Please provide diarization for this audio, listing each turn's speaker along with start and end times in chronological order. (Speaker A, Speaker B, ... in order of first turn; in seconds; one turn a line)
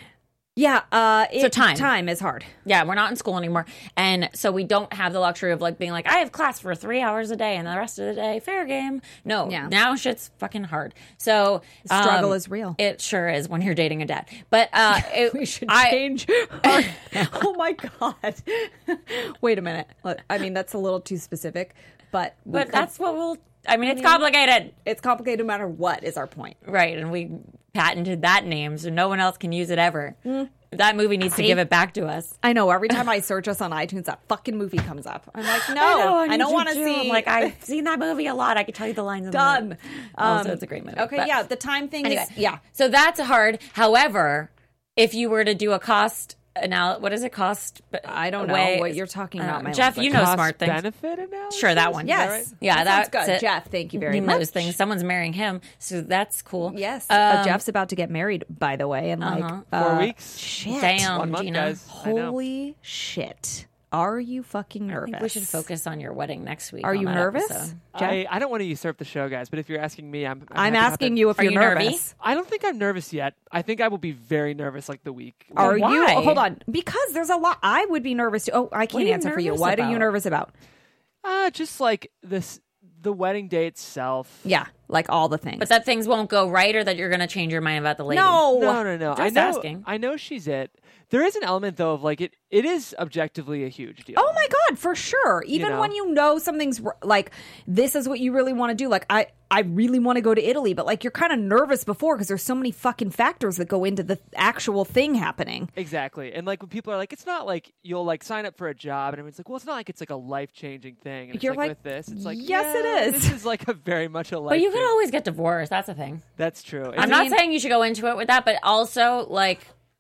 Speaker A: 0.6-2.5
Speaker B: 1.4-1.9
Speaker B: 2.6-16.0
Speaker A: 9.5-9.7
Speaker A: 11.9-12.8
Speaker A: 14.9-22.9
Speaker B: 16.6-17.3
Speaker B: 22.5-24.7
Speaker A: 23.8-24.2
Speaker A: 24.8-26.6
Speaker B: 26.6-32.4
Speaker A: 30.2-30.5
Speaker A: 31.3-31.6
Speaker A: 32.4-37.6
Speaker B: 35.5-41.3
Speaker A: 39.3-42.6
Speaker B: 42.0-50.8
Speaker A: 48.0-50.2
Speaker C: 50.0-52.5
Speaker B: 51.5-57.6
Speaker A: 52.0-54.7
Speaker A: 56.7-61.1
Speaker B: 59.2-59.7
Speaker C: 59.7-62.4
Speaker B: 60.6-61.8
Speaker A: 61.9-65.6
Speaker B: 64.9-67.8
Speaker A: 66.8-68.2
Speaker C: 67.9-71.3
Speaker A: 70.5-72.1
Speaker B: 71.4-72.0
Speaker C: 72.2-75.8
Speaker B: 75.5-76.4
Speaker A: 75.6-80.5
Speaker B: 78.9-80.1
Speaker C: 81.2-84.5
Speaker A: 84.5-85.7
Speaker B: 85.6-88.5
Speaker A: 88.1-88.8
Speaker C: 88.5-94.5
Speaker B: 89.1-89.9
Speaker A: 94.2-105.7
Speaker C: 95.5-95.9
Speaker C: 105.8-114.9
Speaker A: 111.3-113.4
Speaker B: 114.5-116.2
Speaker C: 116.4-117.3
Speaker B: 117.0-119.7
Speaker A: 117.0-117.4